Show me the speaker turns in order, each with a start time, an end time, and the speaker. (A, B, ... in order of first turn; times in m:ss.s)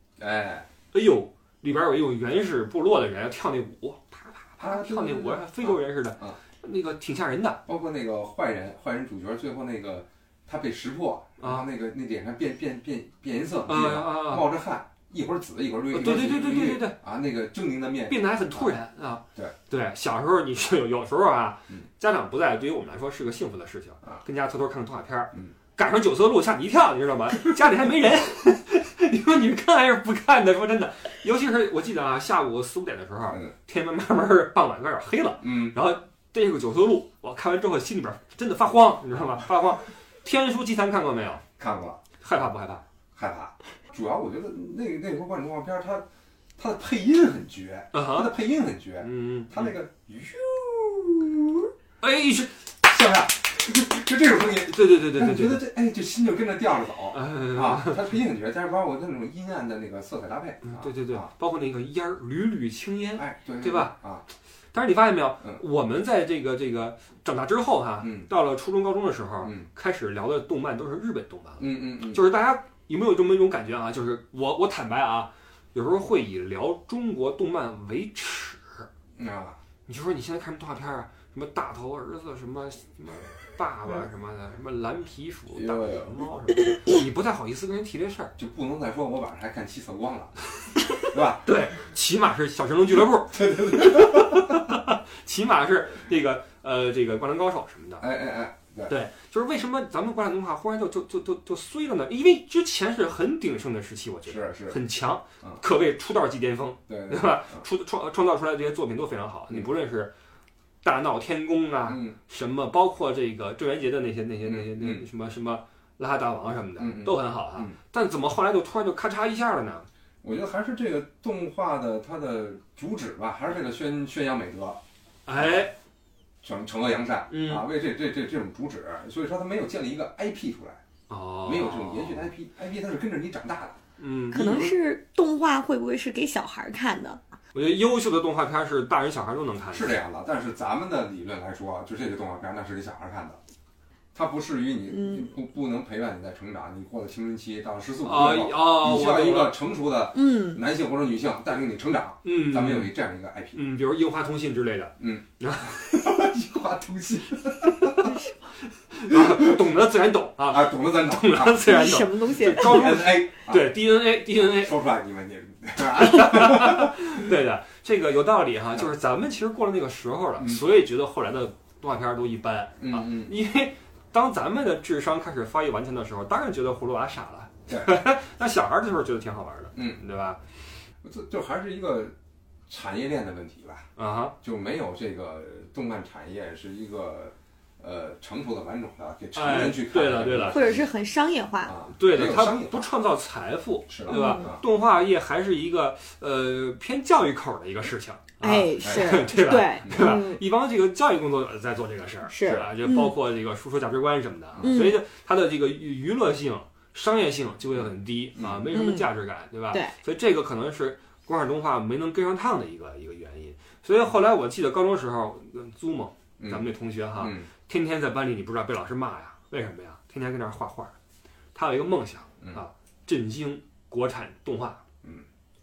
0:00.2-0:00.7 A
0:00.9-0:07.6 B
0:04.6-0:06.4 A
0:07.6-0:18.8 A
0:11.4-0:11.6 B
0:13.6-0:14.5 B
0:15.9-0:17.0 B
0:18.1-0:41.4 B
0:35.4-0:35.8 A
0:41.6-0:42.0 A
0:42.2-0:42.8 B
0:43.2-0:46.0 A
0:46.6-0:51.7 A
0:47.9-0:48.3 B
0:49.0-0:49.7 B
0:52.0-0:52.6 B
0:52.8-1:01.3 A
0:54.6-0:55.6 B
0:57.1-0:58.0 B
1:00.6-1:04.0 B
1:03.2-1:04.2 A
1:04.7-1:18.9 B
1:08.0-1:08.3 A
1:09.4-1:09.7 A
1:11.6-1:12.2 A
1:19.2-1:19.6 A
1:19.9-1:28.3 B
1:25.5-1:26.2 A
1:28.4-1:30.3 A
1:30.9-1:38.0 B
1:31.0-1:31.5 A
1:33.3-1:34.4 A
1:38.0-1:38.9 A
1:38.9-1:50.1 B
1:44.2-1:44.8 A
1:46.9-1:47.6 A
1:50.8-1:59.9 B
1:51.9-1:52.2 A
1:54.4-1:55.0 A
1:56.8-1:57.8 A
2:00.2-2:04.8 A
2:05.2-2:05.7 B
2:05.3-2:05.6 A
2:06.4-2:10.8 A
2:07.3-2:07.7 B
2:11.1-2:12.3 B
2:11.4-2:13.8 A
2:14.0-2:14.4 B
2:14.3-2:14.8 A
2:14.3-2:17.2 C
2:17.5-2:20.0 B
2:19.7-2:23.4 A
2:24.1-2:33.6 A
2:24.9-2:25.3 C
2:28.0-2:29.6 B
2:30.1-2:30.6 C
2:32.2-2:32.9 B
2:33.5-2:35.9 B
2:35.0-2:35.2 A
2:35.8-2:38.0 A
2:38.0-2:38.4 C
2:38.9-2:44.7 B
2:39.1-2:39.4 A
2:40.4-2:47.0 A
2:41.6-2:43.0 C
2:45.9-3:00.4 B
2:52.8-2:53.3 A
2:57.7-2:57.9 A
2:59.7-3:00.0 A
3:01.0-3:02.1 A
3:02.7-3:03.8 A
3:04.0-3:04.3 B
3:04.4-3:10.8 A
3:09.3-3:10.7 B
3:10.4-3:11.7 C
3:11.6-3:12.8 A
3:11.9-3:40.9 B
3:13.9-3:14.6 A
3:14.1-3:14.6 C
3:18.4-3:20.4 C
3:18.8-3:20.2 A
3:22.3-3:23.1 C
3:24.6-3:25.0 C
3:27.8-3:28.7 A
3:28.7-3:29.1 C
3:29.7-3:30.0 C
3:36.4-3:36.7 A
3:37.2-3:37.5 A
3:41.5-3:44.8 B